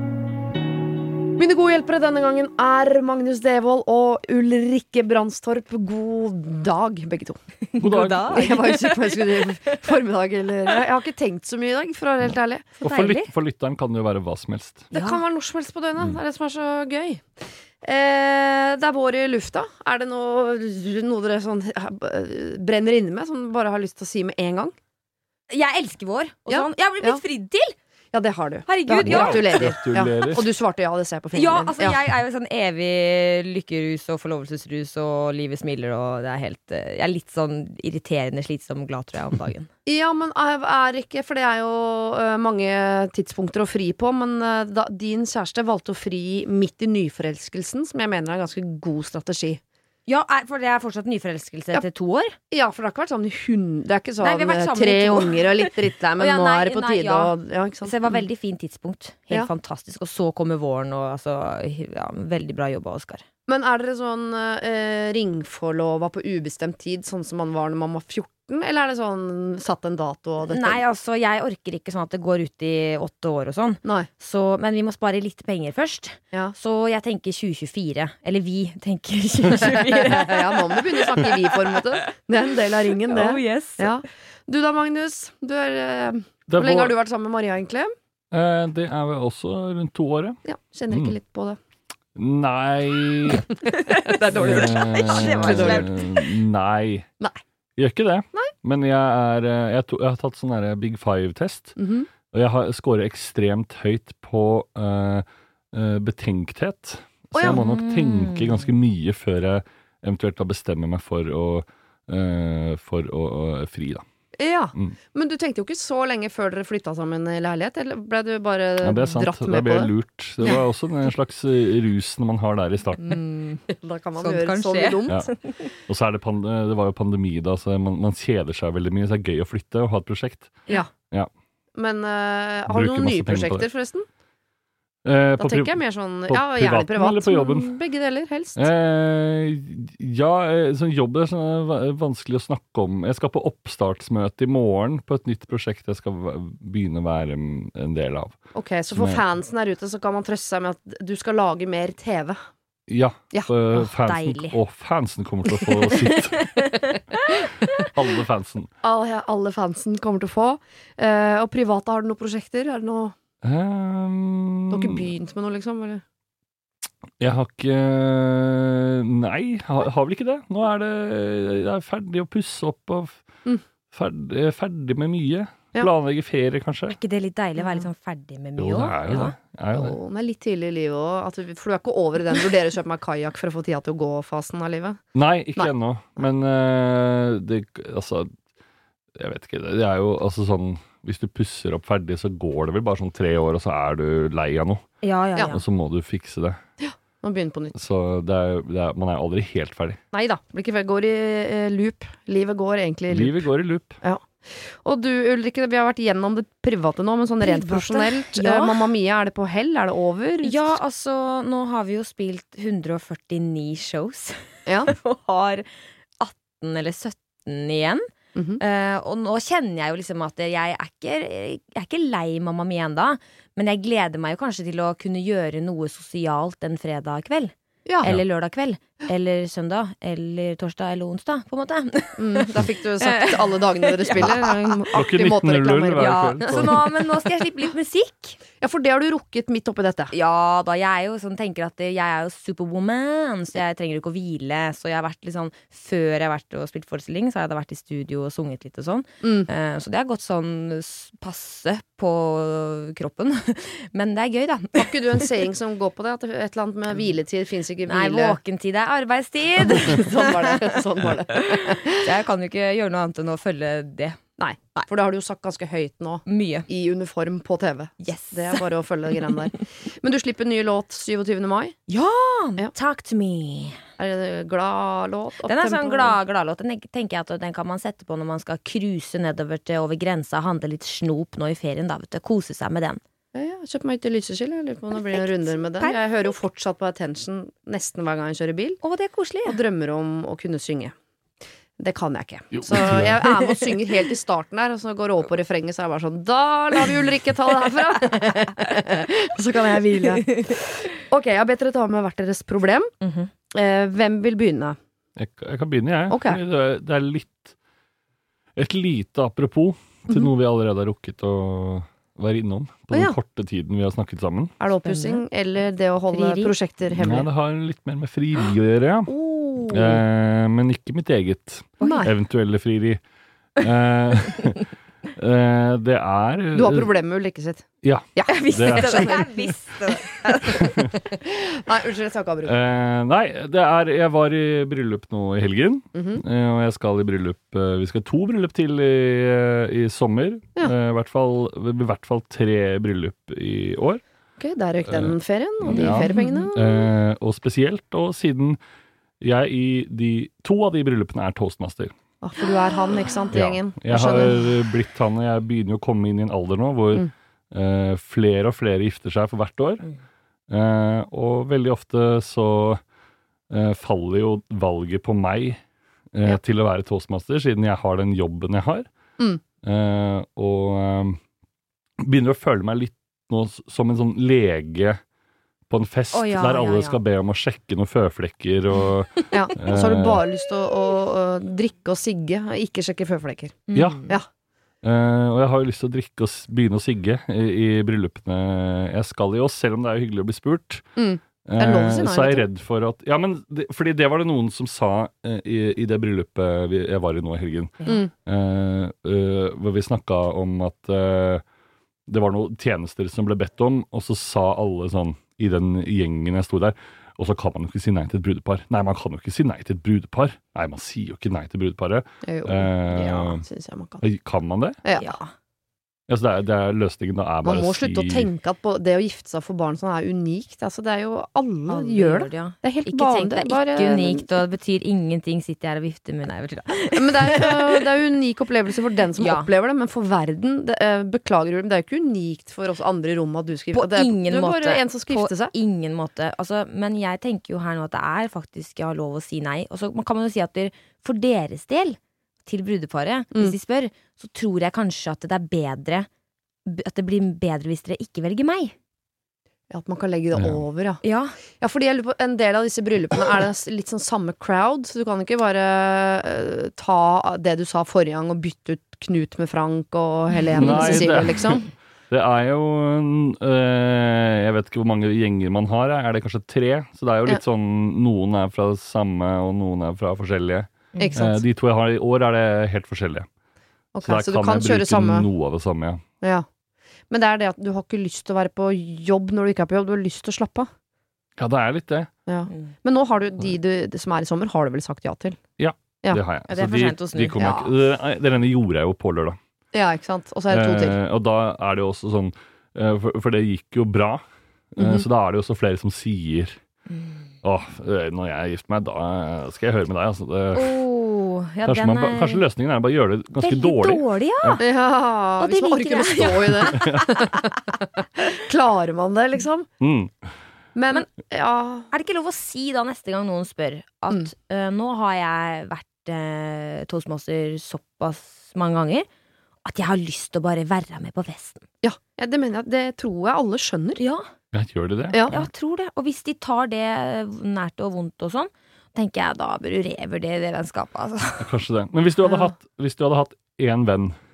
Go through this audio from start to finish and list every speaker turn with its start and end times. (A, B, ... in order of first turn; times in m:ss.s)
0:01.4-0:07.4 A
0:07.7-0:09.8 B
0:07.8-0:08.3 C
0:08.2-0:12.9 A
0:12.8-0:13.3 B
0:12.8-0:14.9 C
0:14.9-0:17.3 A
0:14.9-0:15.2 B
0:17.8-0:24.7 A
0:25.5-0:27.8 B
0:26.5-0:27.2 A
0:28.1-0:32.0 A
0:28.7-0:29.7 B
0:29.0-0:30.5 C
0:31.3-0:39.7 B
0:39.8-0:49.6 A
0:50.1-0:52.3 B
0:52.5-0:58.3 A
0:54.2-1:03.2 B
1:03.5-1:10.8 A
1:10.5-1:22.1 B
1:13.8-1:14.1 A
1:19.9-1:27.9 A
1:23.0-1:23.9 B
1:26.5-1:26.9 C
1:28.3-1:31.2 C
1:30.4-1:31.6 A
1:32.2-1:33.5 C
1:33.7-1:36.2 B
1:33.9-1:35.9 A
1:34.3-1:37.1 C
1:37.8-1:41.8 C
1:41.8-1:42.1 A
1:42.3-1:54.0 C
1:47.3-1:47.6 A
1:47.4-1:48.7 B
1:54.4-2:00.6 A
1:58.8-2:03.2 C
2:03.0-2:03.6 B
2:03.7-2:05.2 A
2:04.2-2:05.7 B
2:05.1-2:11.3 C
2:11.8-2:14.1 A
2:12.7-2:13.7 C
2:15.0-2:17.8 C
2:15.4-2:18.7 A
2:18.6-2:28.4 C
2:28.5-2:32.4 A
2:28.9-2:29.2 C
2:32.9-2:36.5 C
2:33.8-2:34.6 B
2:36.3-2:37.7 B
2:37.8-2:38.7 C
2:38.8-2:43.2 A
2:43.4-2:45.1 C
2:44.7-2:46.0 A
2:47.2-2:53.2 C
2:53.9-2:57.0 C
2:56.9-2:59.4 B
2:57.6-2:57.9 A
2:58.6-3:00.0 C
2:59.7-3:05.0 A
3:05.2-3:08.3 C
3:09.2-3:14.8 C
3:15.0-3:15.6 B
3:15.5-3:16.6 C
3:16.8-3:17.8 A
3:17.7-3:20.0 C
3:20.1-3:23.5 A
3:23.1-3:24.0 C
3:24.0-3:30.8 A
3:27.4-3:28.9 B
3:30.4-3:35.7 B
3:34.7-3:34.9 A
3:36.2-3:38.1 B
3:38.4-3:38.6 A
3:38.6-3:55.0 B
3:47.9-3:48.1 A
3:52.2-3:56.9 A
3:54.9-3:56.8 C
3:56.0-3:58.4 B
3:58.6-4:00.1 A
4:00.1-4:15.3 B
4:09.2-4:09.5 A
4:14.8-4:18.4 A
4:17.9-4:24.2 B
4:19.6-4:22.1 A
4:24.4-4:31.8 A
4:26.3-4:26.7 B
4:28.0-4:28.7 B
4:31.9-4:33.8 B
4:34.0-4:36.2 A
4:35.4-4:43.0 B
4:43.3-4:48.8 A
4:45.0-4:46.3 B
4:48.8-4:49.6 B
4:49.4-4:50.9 A
4:51.8-5:02.9 A
4:52.6-4:53.2 C
5:00.3-5:00.6 B
5:03.0-5:03.3 B
5:03.5-5:04.8 A
5:05.2-5:07.5 C
5:06.1-5:06.4 A
5:08.6-5:14.5 C
5:12.9-5:13.2 A
5:14.6-5:17.3 A
5:14.8-5:15.2 B
5:16.1-5:16.5 B
5:16.9-5:19.1 C
5:19.1-5:20.0 A
5:19.7-5:23.0 C
5:21.8-5:22.1 B
5:21.8-5:22.1 A
5:23.6-5:26.9 C
5:26.5-5:29.2 A
5:27.8-5:29.3 C
5:28.3-5:30.8 B
5:30.4-5:30.9 C
5:31.2-5:32.6 A
5:32.4-5:44.0 C
5:36.0-5:36.2 A
5:44.4-5:46.9 A
5:44.9-5:48.6 C
5:45.7-5:46.5 B
5:49.2-5:51.9 C
5:52.2-5:54.4 A
5:53.3-5:59.8 C
6:00.5-6:02.8 C
6:03.5-6:05.6 C
6:06.1-6:08.9 C
6:09.6-6:11.2 C
6:12.0-6:15.0 C
6:15.7-6:20.2 C
6:16.1-6:17.0 B
6:19.3-6:24.3 A
6:23.7-6:24.2 B
6:23.8-6:24.1 C
6:24.8-6:30.8 C
6:31.0-6:32.5 A
6:31.5-6:41.4 C
6:37.9-6:38.1 A
6:42.1-6:53.4 C
6:52.2-6:54.0 A
6:54.0-6:54.8 C
6:54.8-6:55.2 A
6:55.0-6:55.3 B
6:56.1-6:58.3 C
6:57.4-7:04.3 A
7:01.7-7:07.8 B
7:06.9-7:15.5 A
7:09.2-7:09.5 B
7:13.7-7:26.1 B
7:26.7-7:28.7 B
7:29.7-7:31.0 A
7:30.3-7:30.6 C
7:31.0-7:31.3 B
7:31.6-7:41.6 A
7:40.6-7:41.2 B
7:40.6-7:53.3 C
7:51.0-7:51.2 B
7:51.0-7:51.4 A
7:54.0-7:55.3 A
7:54.0-7:56.0 C
7:56.2-7:56.5 A
7:57.1-8:00.7 A
8:01.4-8:02.1 C
8:02.3-8:05.4 A
8:05.6-8:09.4 C
8:06.5-8:07.7 B
8:07.4-8:07.6 A
8:09.7-8:11.0 A
8:10.5-8:14.2 C
8:14.8-8:16.6 C
8:14.8-8:15.1 A
8:16.9-8:17.3 B
8:17.4-8:20.8 C
8:20.5-8:22.5 B
8:21.6-8:24.6 C
8:23.3-8:24.6 B
8:24.6-8:29.7 A
8:25.4-8:27.2 B
8:26.6-8:27.0 C
8:29.8-8:30.2 C
8:30.8-8:31.9 A
8:31.9-8:39.1 B
8:39.6-8:41.6 B
8:41.8-8:44.0 A
8:44.0-8:44.3 B
8:44.5-8:45.4 C
8:45.1-8:45.5 A
8:45.2-8:51.5 B
8:51.4-8:54.2 C